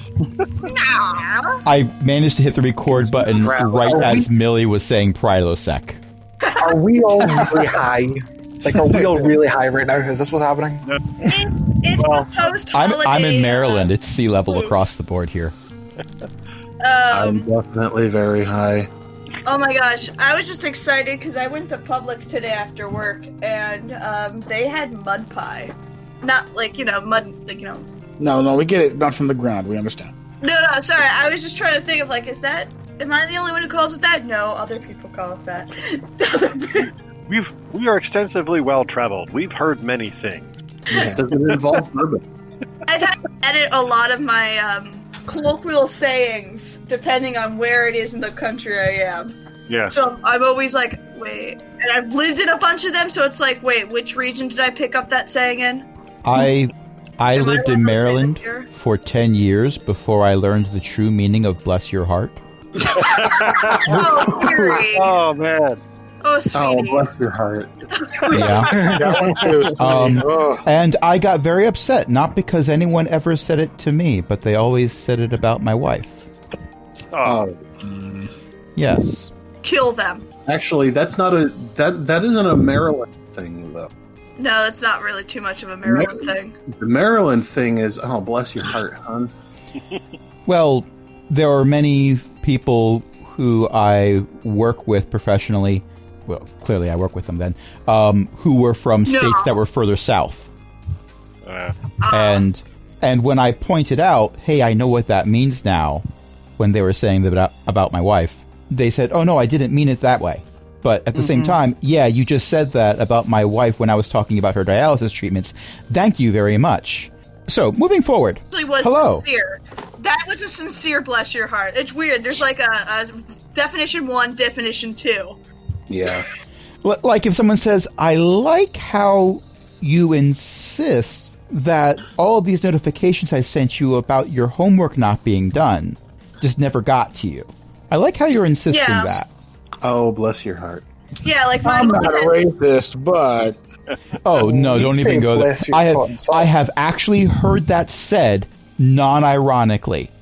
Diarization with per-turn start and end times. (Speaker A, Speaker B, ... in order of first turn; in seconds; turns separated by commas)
Speaker A: 0.6-1.6, Speaker B: 1.7-6.0, Speaker C: 3.2-4.2, Speaker D: 3.9-4.2, Speaker A: 6.5-6.7, Speaker D: 6.6-11.4, Speaker A: 11.3-13.9, Speaker E: 12.0-12.3, Speaker B: 12.7-15.6, Speaker A: 14.5-14.8, Speaker A: 16.8-17.5, Speaker C: 17.1-18.9, Speaker A: 19.4-27.9, Speaker F: 28.2-30.1, Speaker A: 30.4-36.9, Speaker E: 37.3-40.5, Speaker C: 40.9-42.2, Speaker A: 42.9-49.3, Speaker A: 49.9-55.9, Speaker B: 56.2-62.4, Speaker A: 57.3-58.7, Speaker F: 62.8-64.2, Speaker A: 63.0-65.2, Speaker E: 63.0-65.8, Speaker A: 66.2-67.1, Speaker C: 66.5-67.7, Speaker A: 67.9-69.2, Speaker B: 68.3-68.8, Speaker F: 68.7-70.7, Speaker E: 68.9-69.5, Speaker B: 69.8-76.2, Speaker E: 77.1-77.4, Speaker C: 77.2-77.6, Speaker F: 77.8-78.3, Speaker B: 78.8-79.3, Speaker A: 79.6-80.2, Speaker C: 80.5-83.9, Speaker A: 84.4-86.6, Speaker F: 85.9-86.2, Speaker C: 86.7-89.3, Speaker B: 90.5-100.5, Speaker A: 99.1-99.5, Speaker E: 101.5-101.8, Speaker A: 102.0-102.5, Speaker B: 102.1-106.0, Speaker B: 106.6-119.2, Speaker A: 118.5-125.4, Speaker C: 125.9-126.3, Speaker B: 126.8-139.3, Speaker A: 138.7-139.2, Speaker C: 139.8-140.8, Speaker A: 141.2-142.4, Speaker F: 141.6-143.6, Speaker B: 144.2-150.1, Speaker D: 144.3-146.5